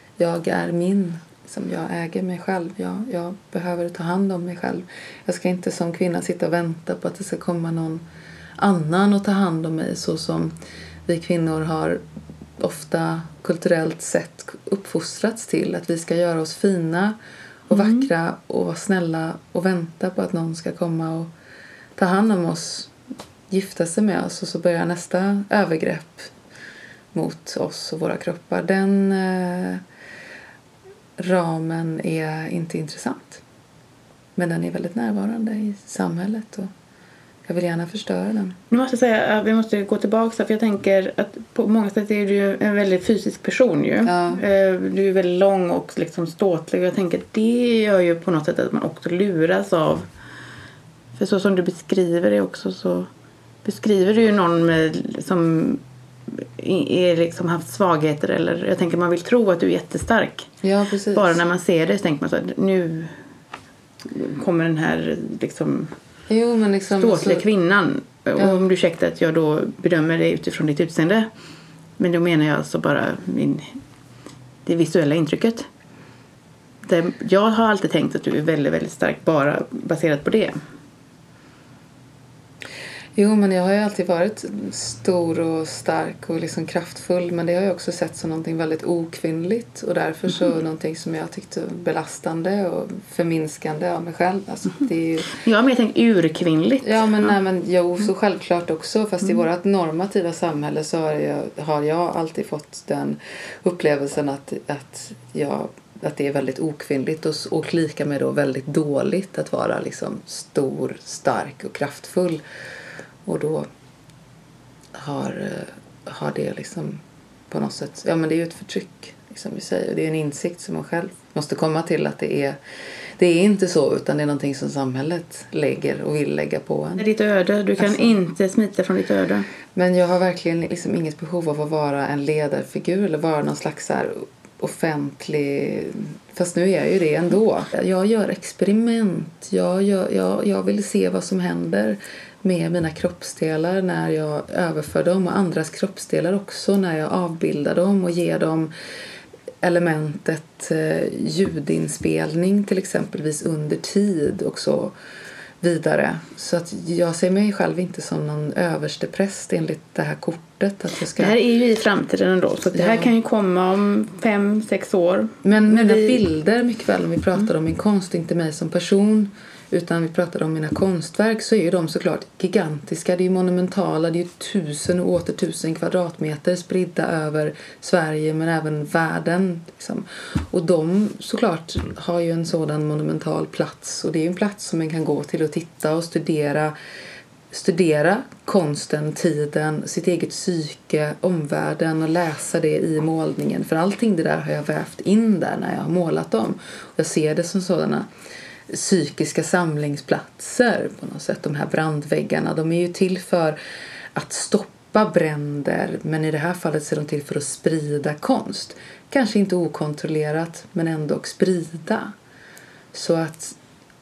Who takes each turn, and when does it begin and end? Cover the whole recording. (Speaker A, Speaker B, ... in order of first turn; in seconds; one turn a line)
Speaker A: 0.2-8.0
Speaker A: 8.6-10.5
Speaker A: 11.1-12.0
Speaker A: 12.6-17.2
Speaker A: 17.7-21.3
Speaker B: 17.7-18.1
Speaker A: 21.9-22.9
Speaker A: 23.5-26.3
Speaker A: 27.1-29.8
Speaker A: 31.2-33.4
Speaker A: 34.4-36.7
Speaker A: 37.5-38.6
Speaker B: 38.7-50.1
Speaker A: 44.0-44.4
Speaker B: 51.2-53.1
Speaker B: 53.6-60.5
Speaker A: 60.6-61.4
Speaker B: 61.1-63.1
Speaker B: 64.0-65.9
Speaker A: 66.3-67.4
Speaker B: 67.0-71.3
Speaker B: 72.0-73.8
Speaker B: 74.7-75.7
Speaker B: 76.8-80.6
Speaker A: 83.2-95.4
Speaker B: 95.3-97.4
Speaker A: 96.8-112.4
Speaker A: 113.2-113.7
Speaker A: 114.9-122.6
Speaker A: 123.2-127.0
Speaker B: 127.0-129.5
Speaker A: 127.8-128.1
Speaker A: 129.7-148.7
Speaker A: 149.6-154.9
Speaker A: 155.6-161.3
Speaker B: 161.2-166.2
Speaker A: 162.8-163.1
Speaker A: 165.4-186.7
Speaker A: 187.5-198.1
Speaker A: 198.7-203.6
Speaker A: 204.1-212.1
Speaker A: 212.9-213.6